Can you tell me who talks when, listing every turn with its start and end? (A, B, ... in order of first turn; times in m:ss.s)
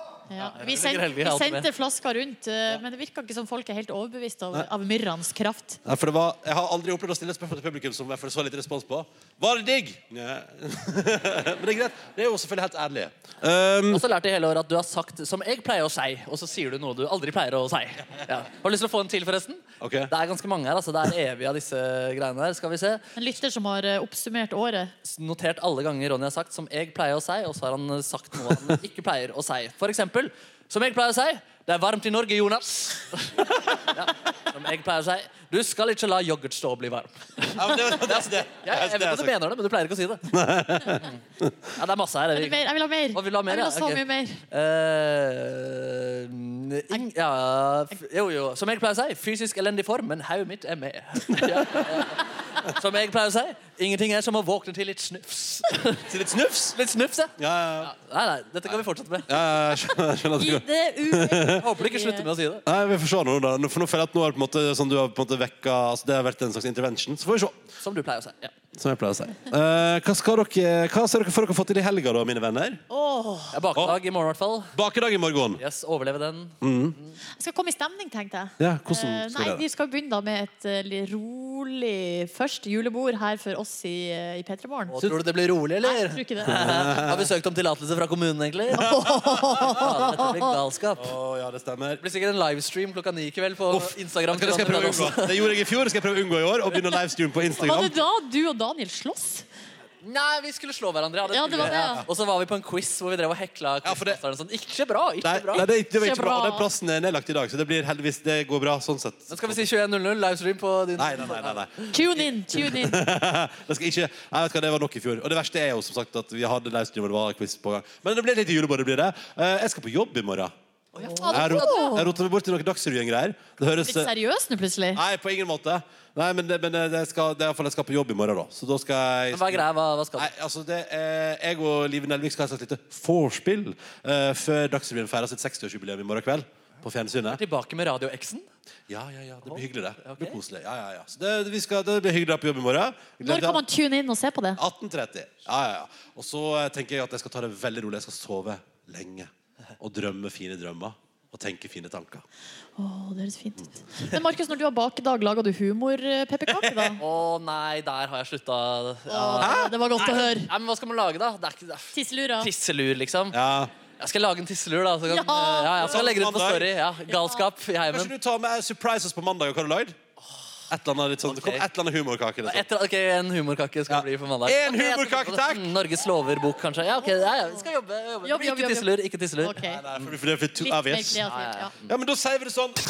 0:00.3-0:05.8 A
0:00.4-0:01.6 B
0:05.8-0:14.0 C
0:13.9-0:23.0 B
0:19.8-0:20.1 C
0:23.2-0:24.9 A
0:25.0-0:40.4 B
0:37.5-0:39.3 C
0:40.3-0:41.7 C
0:40.9-0:41.2 B
0:41.8-0:56.1 B
0:42.3-0:44.4 A
0:56.1-0:56.8 C
0:56.7-0:59.4 B
0:57.4-0:57.9 C
0:58.6-1:01.6 C
1:00.4-1:02.2 A
1:01.6-1:02.6 B
1:02.6-1:07.6 C
1:07.8-1:08.5 B
1:08.8-1:12.8 C
1:12.9-1:13.5 A
1:13.5-1:14.7 B
1:14.7-1:15.6 C
1:15.6-1:17.2 B
1:16.6-1:17.0 C
1:17.4-1:24.9 A
1:18.6-1:19.6 C
1:24.9-1:28.9 B
1:25.8-1:26.5 A
1:26.4-1:27.3 C
1:28.7-1:30.1 C
1:28.8-1:30.5 A
1:29.6-1:31.1 B
1:31.0-1:32.0 C
1:32.0-1:35.5 B
1:33.7-1:37.9 C
1:37.6-1:39.4 A
1:40.0-1:45.7 B
1:41.3-1:42.0 A
1:41.6-1:42.0 C
1:43.8-1:44.2 C
1:45.2-1:49.6 C
1:45.5-1:46.7 A
1:49.3-1:51.8 B
1:51.0-2:00.5 C
1:51.9-1:53.0 A
2:00.9-2:01.8 B
2:01.0-2:02.1 A
2:01.3-2:04.1 C
2:03.8-2:05.0 A
2:04.9-2:17.4 C
2:09.3-2:10.3 B
2:17.3-2:18.5 B
2:18.9-2:23.6 C
2:19.4-2:20.4 B
2:23.2-2:24.6 A
2:24.6-2:32.2 C
2:32.8-2:37.0 A
2:36.6-2:37.0 C
2:37.0-2:43.4 B
2:39.1-2:40.5 A
2:39.4-2:39.7 C
2:41.9-2:42.5 A
2:43.3-2:43.7 C
2:44.0-2:48.1 B
2:45.1-2:46.0 A
2:45.8-2:46.7 C
2:47.8-2:50.0 C
2:50.7-2:52.6 C
2:51.2-2:51.6 B
2:52.4-2:59.6 B
2:53.9-2:55.7 C
2:58.2-2:59.8 A
2:59.6-3:01.2 C
3:00.6-3:01.7 A
3:01.2-3:01.9 B
3:01.9-3:02.8 C